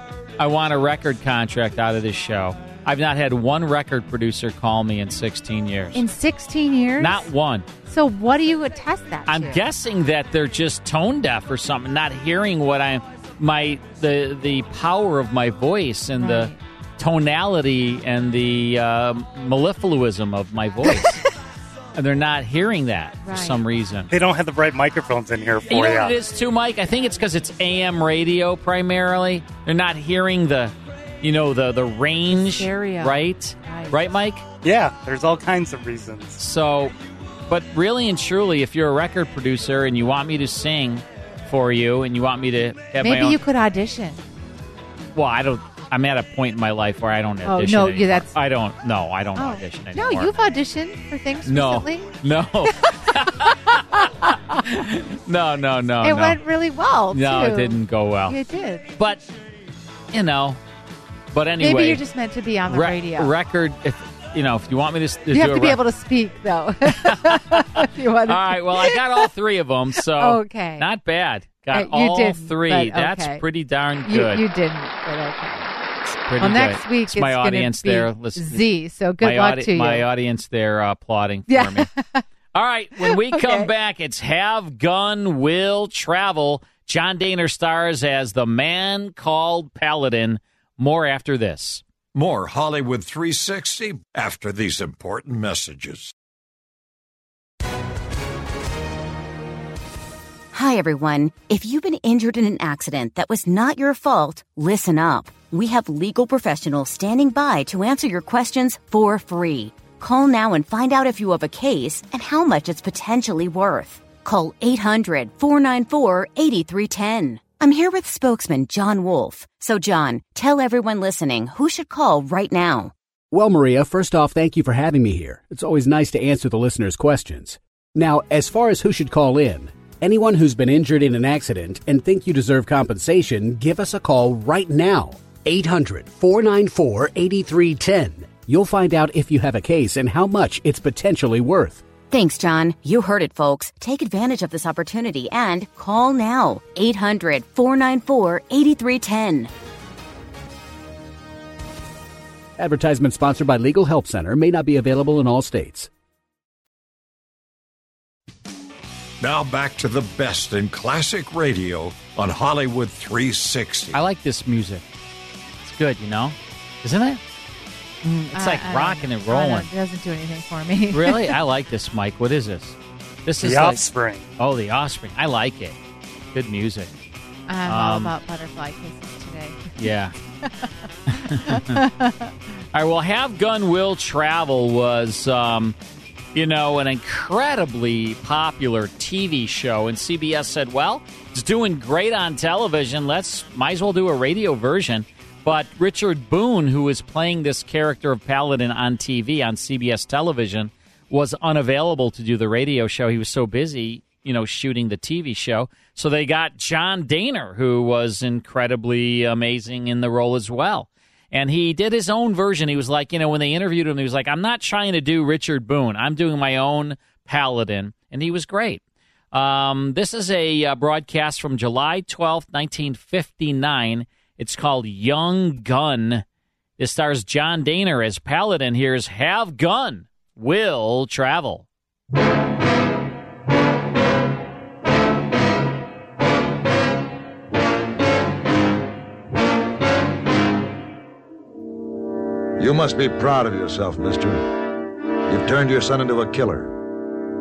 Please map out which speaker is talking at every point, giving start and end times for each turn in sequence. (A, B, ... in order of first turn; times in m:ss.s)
0:00.4-0:06.0 A
0:05.9-0:07.3 B
0:07.0-0:07.7 A
0:07.8-0:09.6 B
0:09.3-0:21.2 A
0:16.2-0:16.6 B
0:21.9-0:24.1 A
0:23.2-0:23.6 B
0:24.1-0:26.2 C
0:25.7-0:34.4 A
0:32.3-0:34.0 B
0:34.6-0:36.4 C
0:36.4-0:36.9 A
0:37.5-0:43.4 A
0:43.0-0:44.2 B
0:45.1-0:50.3 A
0:47.4-0:48.3 B
0:49.4-0:52.1 B
0:51.5-0:56.4 A
0:53.1-0:54.6 B
0:56.0-0:58.8 B
0:57.1-0:58.4 A
0:59.0-0:59.2 A
1:00.1-1:00.6 A
1:01.3-1:02.0 A
1:01.6-1:03.3 B
1:02.7-1:05.8 A
1:05.3-1:09.2 B
1:06.9-1:14.4 A
1:10.1-1:10.8 B
1:11.7-1:13.4 B
1:14.0-1:15.7 B
1:16.1-1:18.7 A
1:16.4-1:20.0 B
1:19.2-1:21.9 A
1:21.5-1:22.2 B
1:22.5-1:31.8 A
1:23.0-1:23.7 B
1:32.1-1:36.1 D
1:40.5-2:02.9 E
2:03.3-2:21.8 F
2:22.1-2:29.5 E
2:32.6-2:35.9 F
2:39.2-2:44.0 D
2:43.9-2:44.8 A
2:45.6-2:47.2 A
2:48.0-2:51.3 B
2:48.2-2:49.7 A
2:50.9-2:55.8 A
2:53.4-2:54.3 C
2:56.3-2:56.9 A
2:57.5-2:59.7 B
2:57.6-2:58.1 A
2:59.8-3:00.1 A
3:00.4-3:00.7 B
3:01.2-3:01.8 A
3:01.2-3:02.3 B
3:02.7-3:05.8 A
3:06.3-3:46.2 A
3:46.8-3:51.6 A
4:02.6-4:04.4 G
4:05.3-4:06.7 G